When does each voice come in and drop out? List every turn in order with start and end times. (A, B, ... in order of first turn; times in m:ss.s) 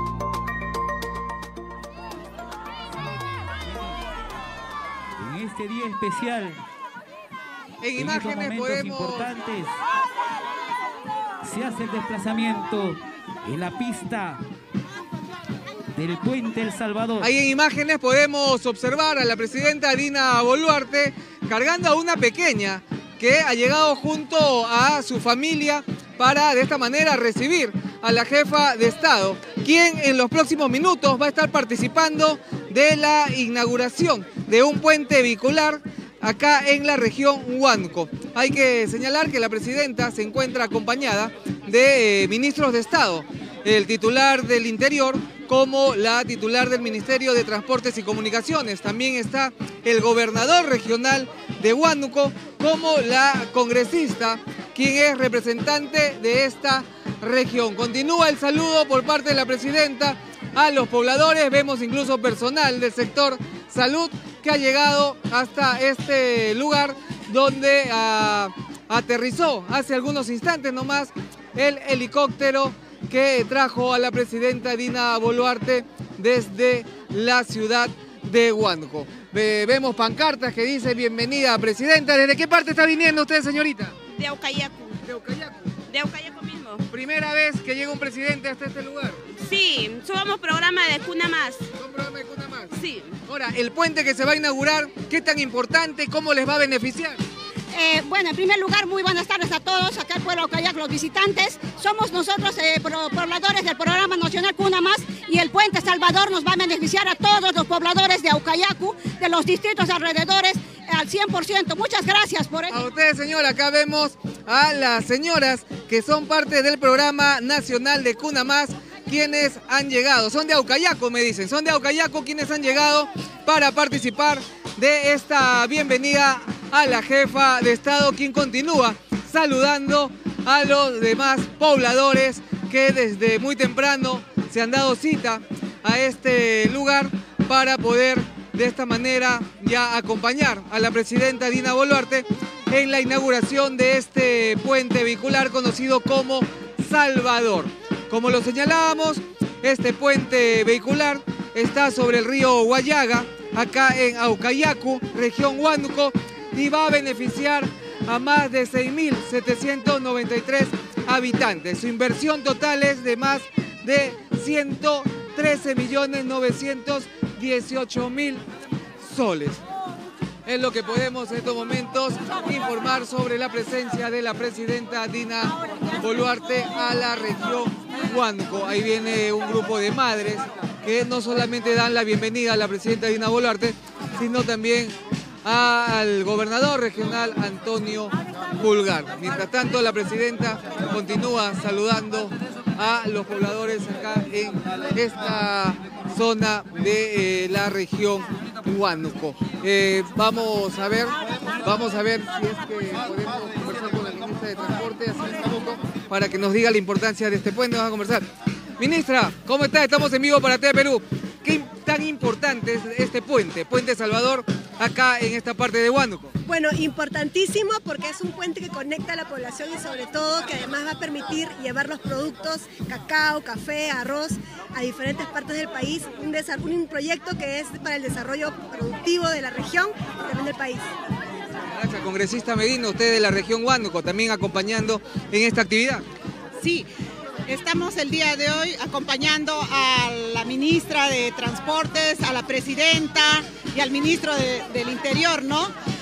0:05.2-0:06.6 A
0:07.8-0:09.3 B
0:08.0-0:09.8 A
0:11.4-0:14.4 A
0:16.0-0:17.3 A
0:17.2-1:23.9 B
1:24.1-1:25.0 C
1:25.0-1:25.5 B
1:25.9-1:26.8 C
1:26.9-1:29.2 B
1:29.4-1:31.6 C
1:31.8-1:32.7 B
1:32.7-1:33.1 C
1:33.2-1:37.2 B
1:37.7-1:52.8 D
1:52.7-2:48.4 B
2:49.0-2:49.6 B
2:50.4-3:28.2 B
3:28.8-3:36.3 B
3:36.4-3:50.9 E
3:51.7-3:56.0 B
3:56.6-3:56.9 F
3:57.4-4:05.7 F